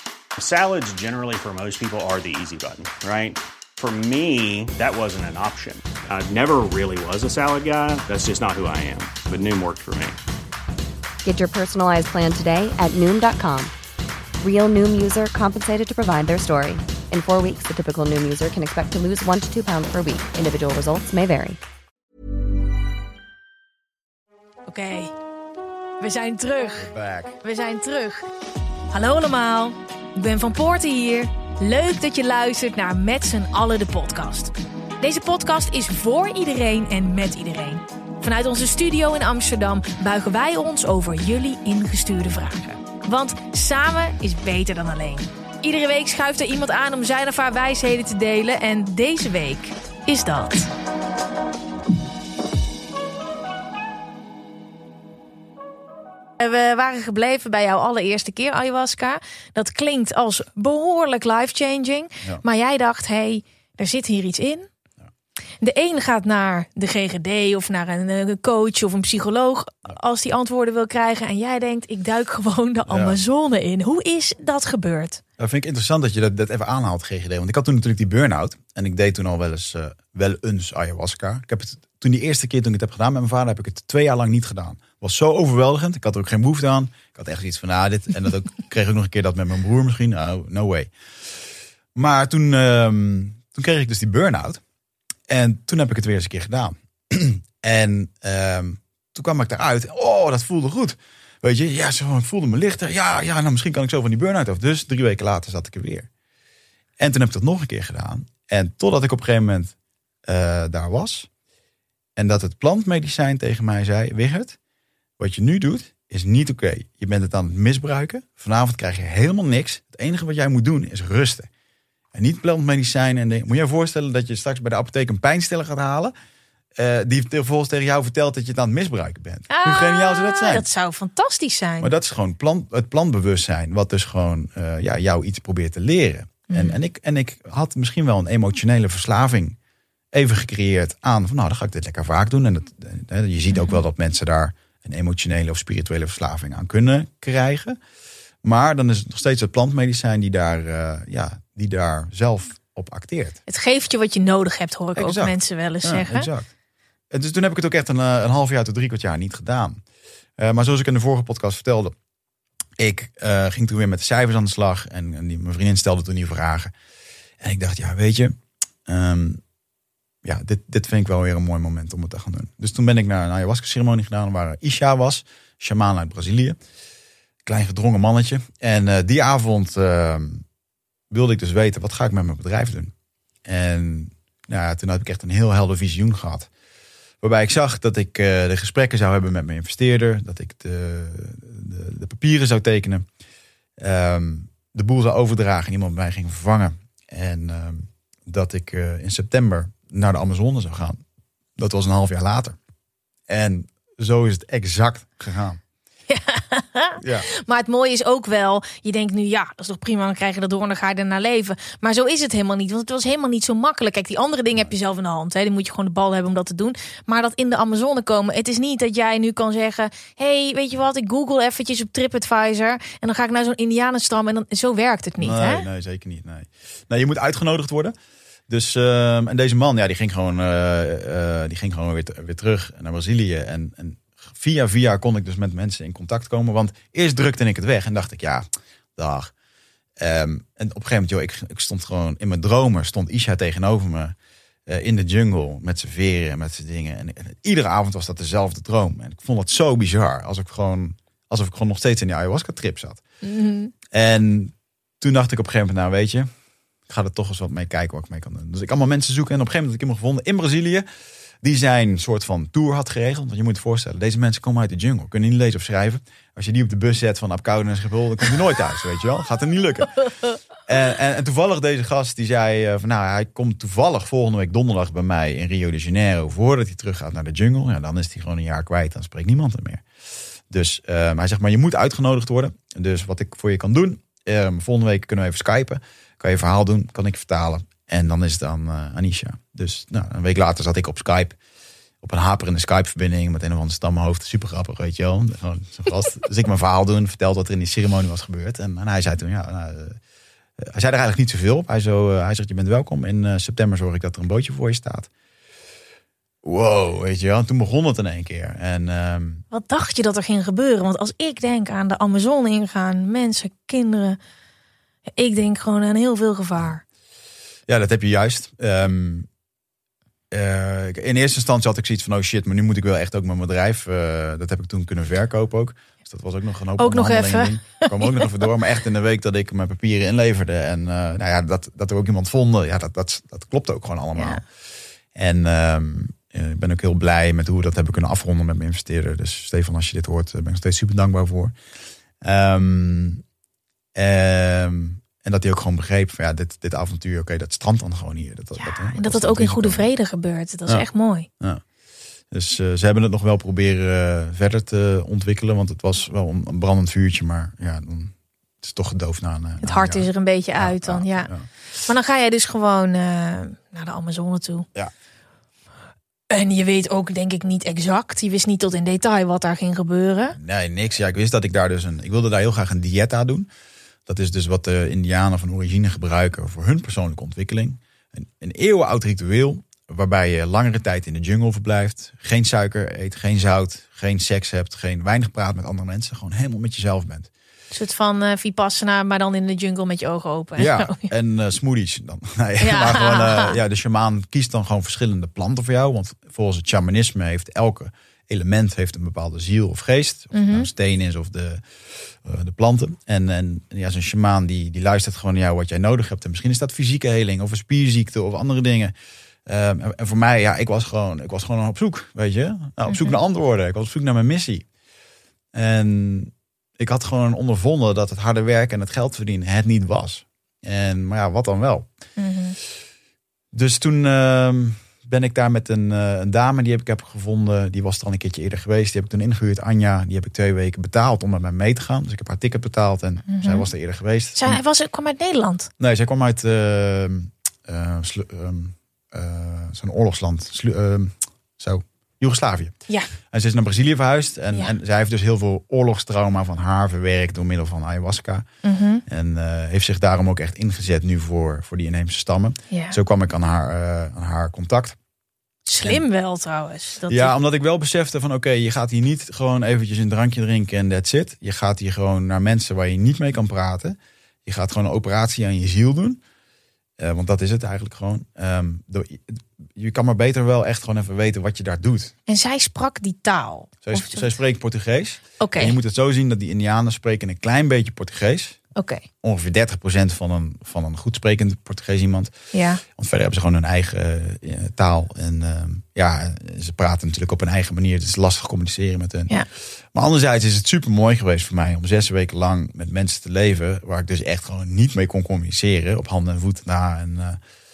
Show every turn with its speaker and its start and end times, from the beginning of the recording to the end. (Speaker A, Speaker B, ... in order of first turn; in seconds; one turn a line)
Speaker A: 0.4-10.2
Speaker B: 11.2-13.7
Speaker B: 14.4-21.6
Speaker C: 24.7-25.1
Speaker C: 26.0-26.9
Speaker D: 26.7-27.4
Speaker C: 27.4-28.2
Speaker C: 28.9-50.7
Speaker C: 56.4-64.7
Speaker C: 65.6-75.2
Speaker D: 72.9-73.2
Speaker D: 75.4-90.9
Speaker D: 91.9-94.6
Speaker D: 95.3-106.1
Speaker D: 107.0-109.7
Speaker D: 110.2-111.3
Speaker D: 112.2-114.6
Speaker D: 115.2-121.5
Speaker D: 122.1-126.1
Speaker D: 126.7-130.7
Speaker C: 129.5-131.9
Speaker D: 131.8-139.6
Speaker C: 136.5-136.8
Speaker D: 140.1-147.8
Speaker D: 148.4-153.4
Speaker C: 153.5-156.3
Speaker D: 154.9-156.5
Speaker D: 157.1-159.8
Speaker D: 160.4-161.9
Speaker D: 162.8-166.7
Speaker D: 167.4-169.4
Speaker D: 170.2-176.6
Speaker D: 177.4-180.4
Speaker D: 181.1-182.9
Speaker D: 183.4-186.5
Speaker D: 187.2-193.1
Speaker D: 193.8-201.0
Speaker D: 201.6-202.6
Speaker D: 203.3-205.6
Speaker C: 206.1-225.7
Speaker D: 207.0-207.3
Speaker D: 225.2-227.9
Speaker D: 228.5-238.4
Speaker D: 238.9-239.3
Speaker D: 240.0-244.1
Speaker D: 244.7-253.0
Speaker C: 253.2-253.7
Speaker D: 253.9-256.3
Speaker D: 256.9-260.9
Speaker D: 261.4-270.0
Speaker D: 270.6-279.8
Speaker D: 280.5-291.4
Speaker D: 292.0-300.0
Speaker D: 300.6-305.1
Speaker D: 306.4-309.4
Speaker C: 309.5-314.2
Speaker C: 315.2-316.8
Speaker D: 317.7-319.3
Speaker D: 320.3-334.4
Speaker C: 326.8-328.3
Speaker C: 334.1-334.4
Speaker D: 335.1-341.5
Speaker D: 342.2-343.2
Speaker D: 343.9-349.9
Speaker C: 348.6-351.3
Speaker D: 352.3-361.5
Speaker C: 359.6-361.3
Speaker C: 361.8-364.7
Speaker C: 366.3-370.4
Speaker D: 370.4-373.5
Speaker D: 374.1-387.3
Speaker C: 387.7-391.1
Speaker D: 390.6-408.9
Speaker C: 392.6-393.6
Speaker C: 400.3-400.7
Speaker D: 409.4-414.6
Speaker C: 412.9-413.2
Speaker D: 415.5-421.9
Speaker C: 422.2-422.6
Speaker D: 423.5-434.6
Speaker C: 433.3-433.6
Speaker C: 434.4-435.7
Speaker D: 435.8-442.7
Speaker D: 443.3-448.4
Speaker C: 448.6-449.0
Speaker D: 449.1-455.0
Speaker C: 452.7-453.0
Speaker C: 455.7-457.3
Speaker D: 457.1-466.2
Speaker D: 467.0-472.1
Speaker C: 472.3-474.3
Speaker D: 473.8-478.6
Speaker C: 475.4-475.8
Speaker C: 478.8-479.0
Speaker D: 479.2-482.3
Speaker C: 482.5-482.8
Speaker D: 482.9-489.3
Speaker D: 489.9-497.4